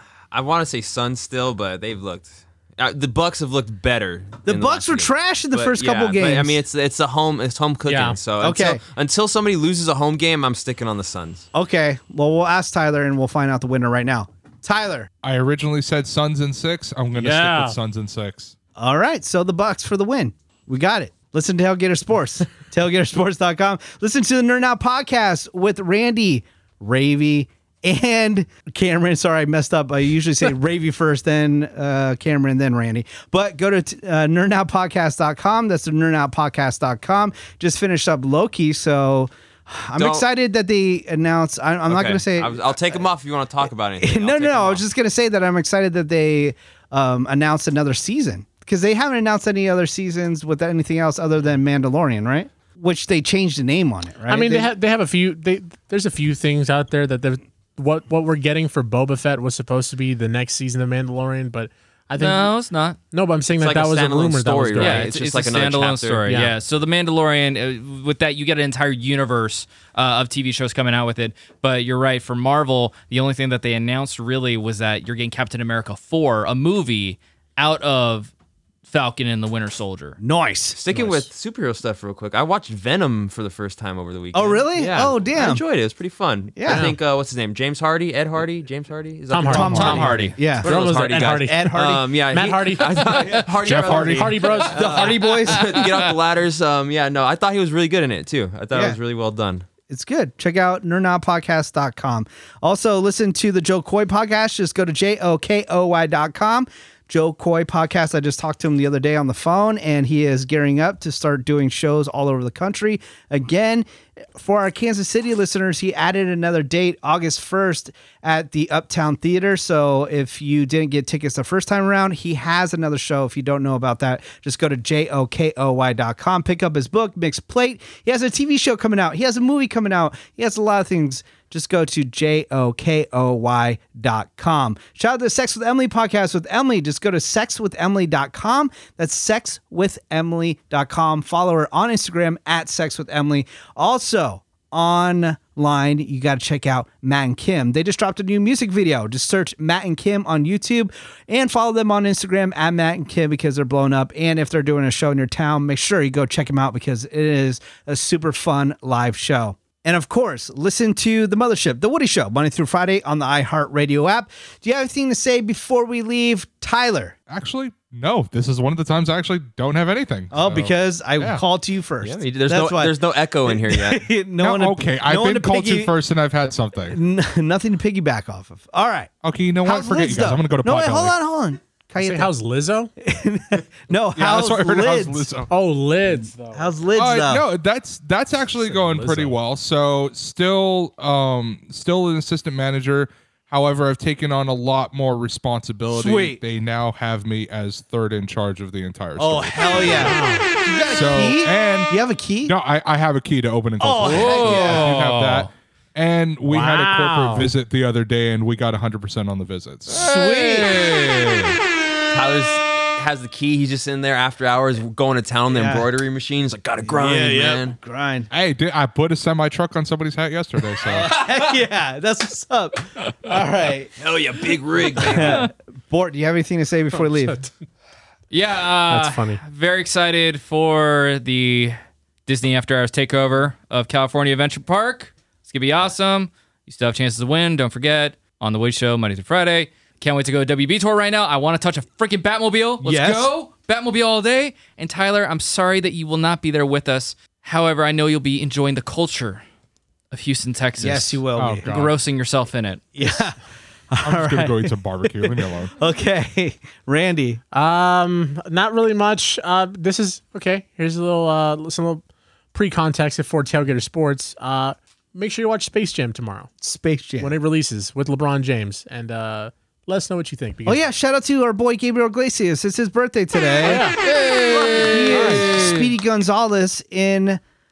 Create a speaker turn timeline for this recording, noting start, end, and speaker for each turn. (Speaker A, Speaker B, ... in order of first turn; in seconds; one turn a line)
Speaker A: 0.3-11.4
Speaker B: 4.5-6.6
Speaker C: 7.8-8.2
Speaker B: 8.4-8.8
Speaker B: 11.5-15.1
Speaker D: 15.2-18.5
Speaker C: 17.1-17.8
Speaker B: 18.8-43.0
Speaker A: 40.0-40.2
Speaker A: 41.9-44.8
Speaker B: 44.0-54.7
Speaker C: 54.3-62.5
Speaker E: 62.2-63.0
Speaker C: 63.1-65.1
Speaker A: 63.5-66.2
Speaker E: 64.8-78.3
Speaker C: 66.3-66.5
Speaker E: 78.9-80.2
Speaker B: 80.2-81.2
Speaker A: 80.7-99.7
Speaker B: 84.3-85.6
Speaker B: 86.5-86.9
Speaker C: 86.7-86.9
Speaker C: 89.3-91.7
Speaker B: 89.5-92.1
Speaker E: 89.7-90.3
Speaker C: 92.3-95.0
Speaker D: 93.6-94.4
Speaker B: 94.7-95.8
Speaker E: 95.5-96.1
Speaker B: 99.9-167.2
Speaker D: 167.3-171.4
Speaker B: 170.3-175.9
Speaker A: 172.0-174.1
Speaker D: 174.4-177.0
Speaker B: 176.9-179.1
Speaker D: 179.2-181.1
Speaker B: 179.6-182.3
Speaker C: 182.0-182.9
Speaker B: 183.0-185.3
Speaker D: 184.2-185.5
Speaker C: 185.5-186.8
Speaker B: 186.5-187.4
Speaker D: 186.9-200.1
Speaker C: 188.6-189.3
Speaker B: 195.9-196.4
Speaker B: 199.2-202.5
Speaker C: 199.8-200.5
Speaker D: 200.9-201.9
Speaker D: 202.4-210.0
Speaker B: 203.8-204.9
Speaker E: 204.0-205.5
Speaker C: 206.4-207.5
Speaker E: 209.9-211.6
Speaker B: 209.9-210.8
Speaker A: 212.1-217.8
Speaker B: 215.5-215.9
Speaker B: 216.8-218.3
Speaker D: 218.3-221.2
Speaker B: 220.8-223.9
Speaker A: 224.0-225.5
Speaker B: 225.0-227.5
Speaker E: 225.2-225.4
Speaker C: 227.0-227.3
Speaker E: 228.3-231.8
Speaker C: 228.9-229.4
Speaker E: 232.3-249.4
Speaker B: 242.8-243.3
Speaker E: 250.1-252.8
Speaker B: 250.8-251.7
Speaker D: 251.3-252.0
Speaker B: 252.9-253.4
Speaker B: 253.9-257.4
Speaker D: 254.0-255.7
Speaker C: 257.5-266.5
Speaker B: 266.6-267.3
Speaker C: 267.2-270.8
Speaker B: 270.6-273.9
Speaker C: 273.6-274.0
Speaker E: 274.0-275.9
Speaker B: 274.7-277.4
Speaker C: 275.1-275.5